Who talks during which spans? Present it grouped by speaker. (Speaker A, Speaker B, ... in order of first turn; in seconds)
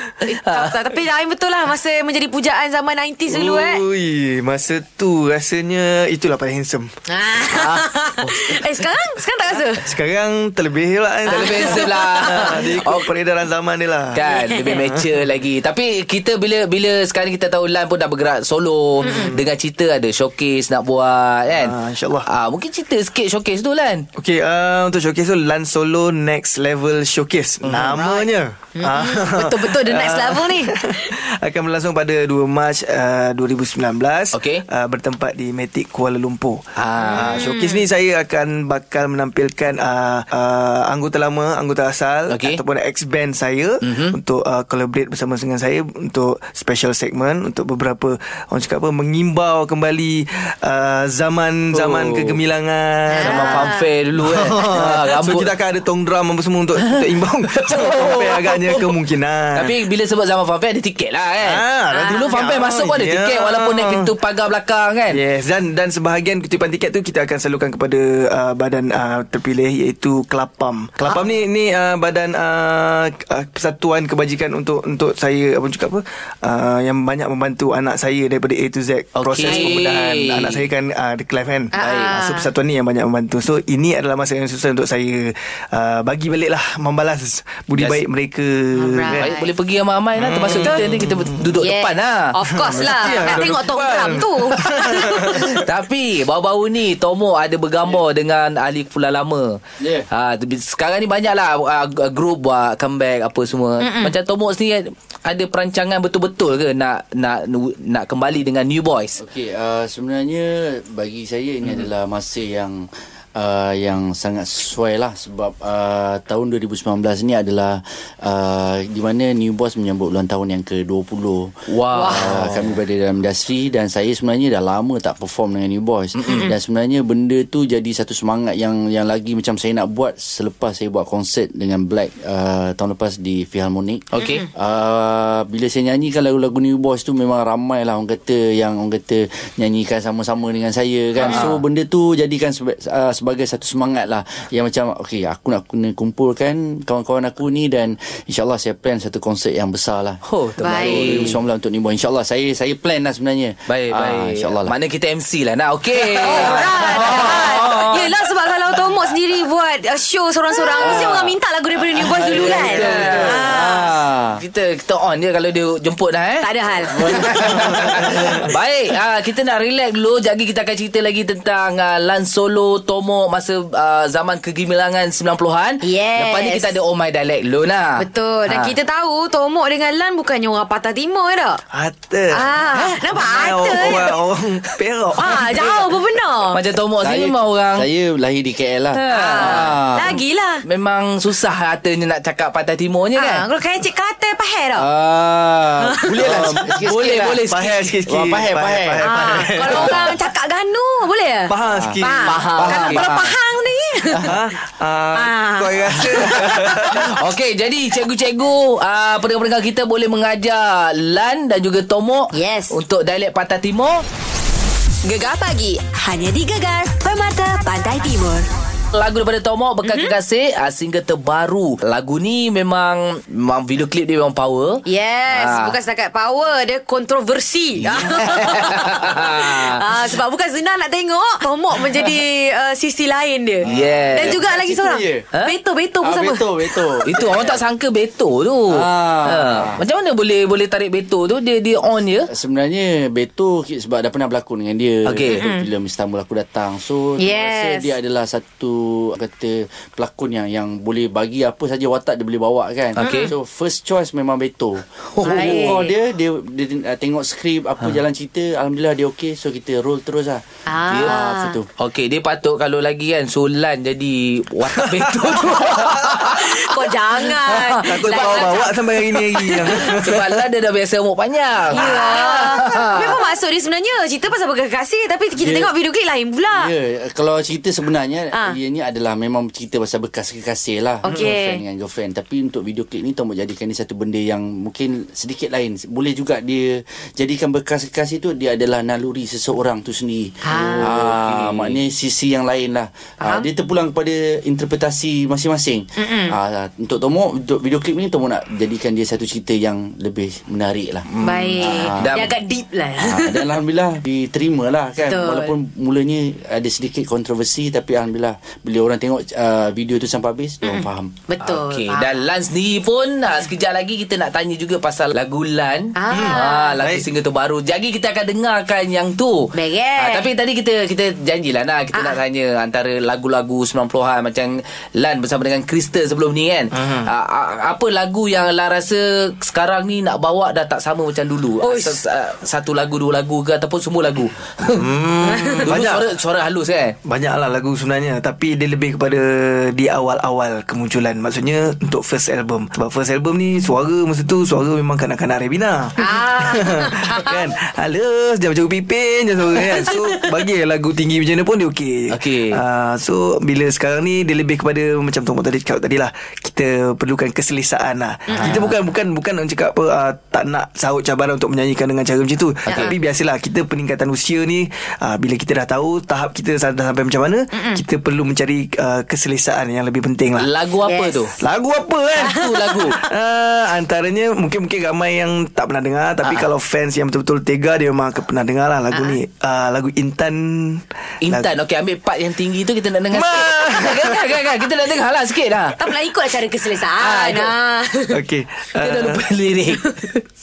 Speaker A: 0.2-3.8, 7.1-9.9, 11.3-12.8, 14.3-14.7, 19.0-19.4, 28.8-31.1, 37.1-37.9, 53.1-53.9, 61.9-62.5, 79.5-79.9, 81.7-82.5, 88.8-89.5, 91.6-95.6, 103.8-104.2, 121.9-122.3, 134.2-134.5, 141.2-141.5, 150.6-151.2, 156.2-163.9, 166.4-167.4, 175.8-176.7, 178.0-181.6, 182.3-184.2, 185.2-186.6, 189.0-190.6, 193.2-194.9, 195.9-196.2, 199.0-204.4, 205.2-206.7, 212.3-212.7, 219.8-220.1, 224.9-237.5, 245.3-245.7, 247.2-247.9, 253.0-253.3, 255.2-255.9, 260.7-261.6, 266.3-268.9, 271.7-276.7, 281.0-281.6, 290.4-290.9, 293.2-293.5, 296.0-296.4, 301.2-303.4, 305.1-305.5, 310.6-312.3, 315.9-316.8, 319.5-320.3, 321.9-322.2, 331.6-332.0, 335.2-335.6, 346.0-347.5, 349.6-350.2, 358.3-358.7, 367.5-367.8, 370.8-371.3, 372.2-373.1, 385.8-388.2
Speaker B: 0.4-0.8, 7.5-7.8, 11.3-13.1, 14.1-24.1, 27.6-28.2, 34.3-34.6, 36.8-37.4, 42.3-42.6, 43.8-44.2, 51.7-52.4, 53.2-55.5, 56.8-58.9, 59.5-65.2, 79.2-80.7, 81.8-82.1, 89.1-92.3, 95.5-109.2, 121.7-122.7, 126.2-126.5, 134.1-134.4, 141.3-141.6, 150.2-151.4, 153.7-158.1, 160.8-161.1, 161.9-163.4, 164.4-178.8, 186.5-187.9, 189.0-189.8, 190.7-193.4, 196.2-198.0, 202.2-203.0, 206.8-214.0, 218.9-225.8, 227.8-229.8, 233.6-234.4, 237.1-242.3, 245.1-245.4, 253.0-253.3, 255.1-255.8, 260.9-261.2, 261.8-266.4, 267.9-268.4, 269.7-273.2, 290.5-291.8, 301.1-302.3, 311.4-334.9, 335.6-337.0, 352.1-352.6, 358.3-358.7, 362.7-362.9, 370.4-371.3, 372.2-373.0, 376.2-376.5, 381.2-385.8, 387.0-387.5, 388.8-389.9
Speaker C: 3.3-6.9, 8.2-8.6, 9.8-15.2, 21.5-22.3, 24.2-59.8, 61.4-64.1, 65.1-89.3, 90.2-91.5, 92.5-95.7, 167.5-168.5, 181.7-185.9, 197.4-200.2, 201.5-202.9, 204.2-207.1, 264.8-266.3, 267.3-270.5, 316.1-317.1, 326.8-327.1, 334.7-336.1, 337.1-370.5, 371.4-381.5, 383.1-384.3, 388.1-389.2
Speaker D: 99.8-100.1, 109.2-121.6, 122.1-154.8, 156.3-157.7, 160.7-161.3, 162.0-164.4, 166.9-168.1, 187.0-190.2, 194.8-197.4, 198.1-199.1, 201.7-203.3, 233.7-235.3, 236.0-237.6, 238.7-239.8, 242.3-261.7, 275.4-275.7, 276.5-302.4, 303.0-311.1
Speaker E: 215.0-218.5